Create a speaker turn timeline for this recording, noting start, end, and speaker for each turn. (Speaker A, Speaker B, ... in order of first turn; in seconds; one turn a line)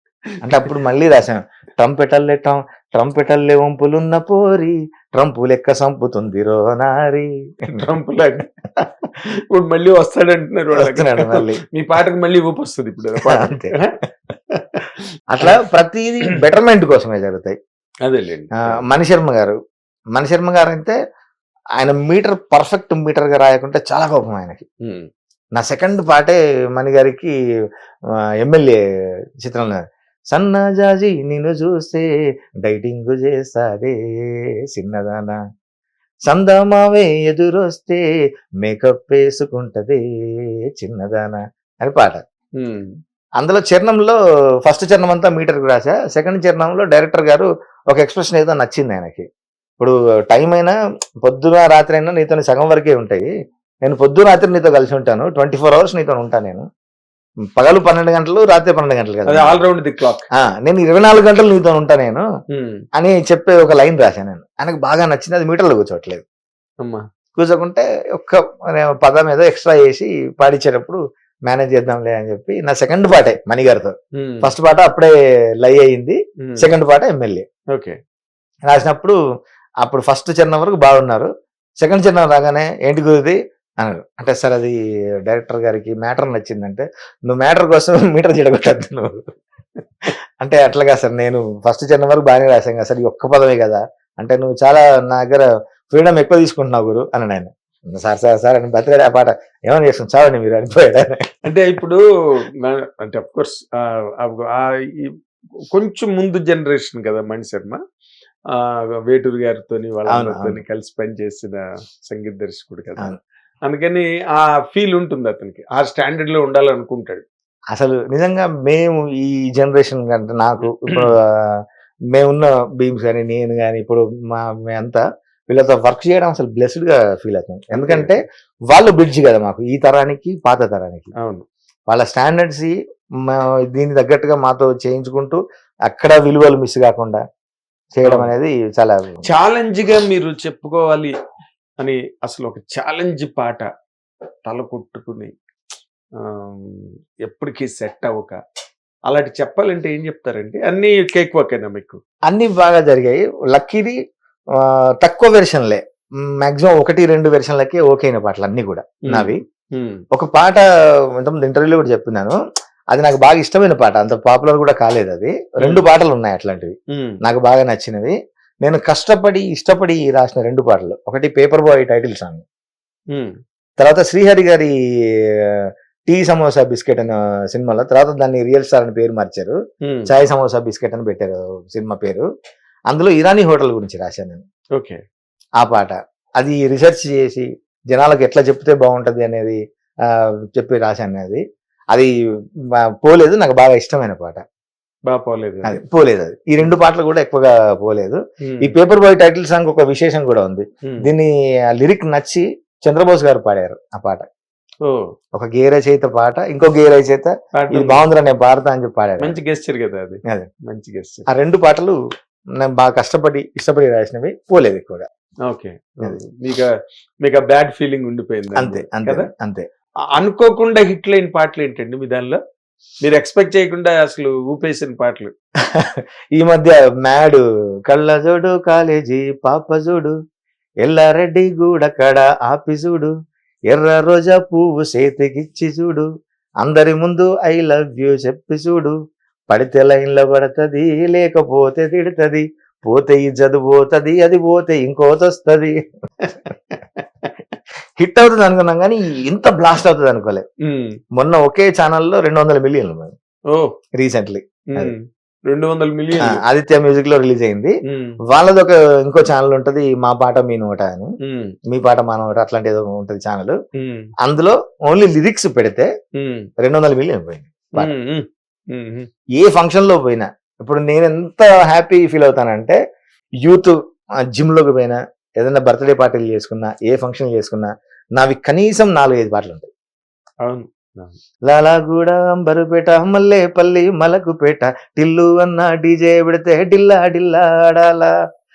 Speaker A: 0.4-7.8
Speaker B: 7.7-13.9
Speaker A: 10.7-11.6
Speaker A: 13.2-13.8
Speaker B: 14.5-15.5
Speaker A: 15.3-17.6
Speaker B: 18.1-18.8
Speaker A: 18.7-19.6
Speaker A: 20.1-20.9
Speaker A: 21.8-24.6
Speaker A: 25.6-27.3
Speaker A: 28.4-28.8
Speaker A: 29.4-29.8
Speaker A: 30.3-32.0
Speaker A: 32.6-33.9
Speaker A: 34.7-35.4
Speaker A: 36.3-38.0
Speaker A: 38.6-40.0
Speaker A: 40.7-42.2
Speaker B: 42.6-42.9
Speaker A: 43.4-49.2
Speaker A: 49.8-53.3
Speaker A: 53.8-56.6
Speaker A: 57.5-59.6
Speaker B: 59.3-60.2
Speaker A: 60.4-62.2
Speaker B: 62.5-62.8
Speaker A: 63.0-66.2
Speaker A: 67.3-77.4
Speaker B: 74.2-74.5
Speaker B: 76.4-76.7
Speaker A: 78.7-79.2
Speaker A: 79.8-81.3
Speaker A: 81.8-89.2
Speaker A: 90.4-101.4
Speaker B: 101.5-105.1
Speaker B: 105.7-107.8
Speaker B: 108.5-117.2
Speaker A: 110.1-110.6
Speaker A: 117.7-121.2
Speaker B: 120.7-121.1
Speaker A: 122.1-131.1
Speaker B: 127.7-128.1
Speaker A: 131.9-132.7
Speaker A: 133.2-137.2
Speaker A: 137.9-139.2
Speaker B: 138.0-138.3
Speaker B: 139.2-141.1
Speaker B: 141.8-143.6
Speaker B: 144.4-145.3
Speaker B: 146.2-148.4
Speaker B: 149.1-152.0
Speaker A: 152.3-153.9
Speaker A: 154.6-155.8
Speaker A: 156.4-159.4
Speaker B: 159.1-160.0
Speaker A: 160.1-160.6
Speaker A: 161.2-162.3
Speaker A: 162.9-172.4
Speaker A: 173.8-174.7
Speaker A: 175.5-182.2
Speaker B: 179.8-180.1
Speaker A: 182.9-184.4
Speaker A: 185.6-189.6
Speaker A: 190.5-191.4
Speaker A: 192.8-194.4
Speaker B: 195.1-195.8
Speaker A: 195.6-204.2
Speaker B: 198.4-198.7
Speaker A: 205.3-209.4
Speaker B: 207.6-208.0
Speaker B: 209.2-211.2
Speaker A: 211.3-212.0
Speaker A: 212.6-215.1
Speaker B: 215.4-216.7
Speaker B: 217.2-219.3
Speaker A: 218.5-219.7
Speaker B: 220.2-222.4
Speaker B: 223.0-225.3
Speaker A: 225.7-230.1
Speaker A: 230.8-233.1
Speaker A: 233.7-236.1
Speaker A: 236.6-238.9
Speaker A: 239.5-245.8
Speaker A: 248.0-250.4
Speaker B: 250.7-250.9
Speaker A: 251.2-253.1
Speaker A: 253.9-254.9
Speaker B: 254.7-256.4
Speaker A: 256.2-257.7
Speaker B: 257.9-258.2
Speaker A: 258.3-261.1
Speaker B: 261.2-261.5
Speaker A: 261.7-263.5
Speaker B: 263.8-264.1
Speaker A: 264.2-265.9
Speaker B: 266.2-266.5
Speaker A: 266.6-267.9
Speaker B: 267.8-269.1
Speaker A: 269.4-272.8
Speaker A: 273.4-273.8
Speaker A: 274.3-279.7
Speaker B: 280.4-281.1
Speaker A: 281.4-288.1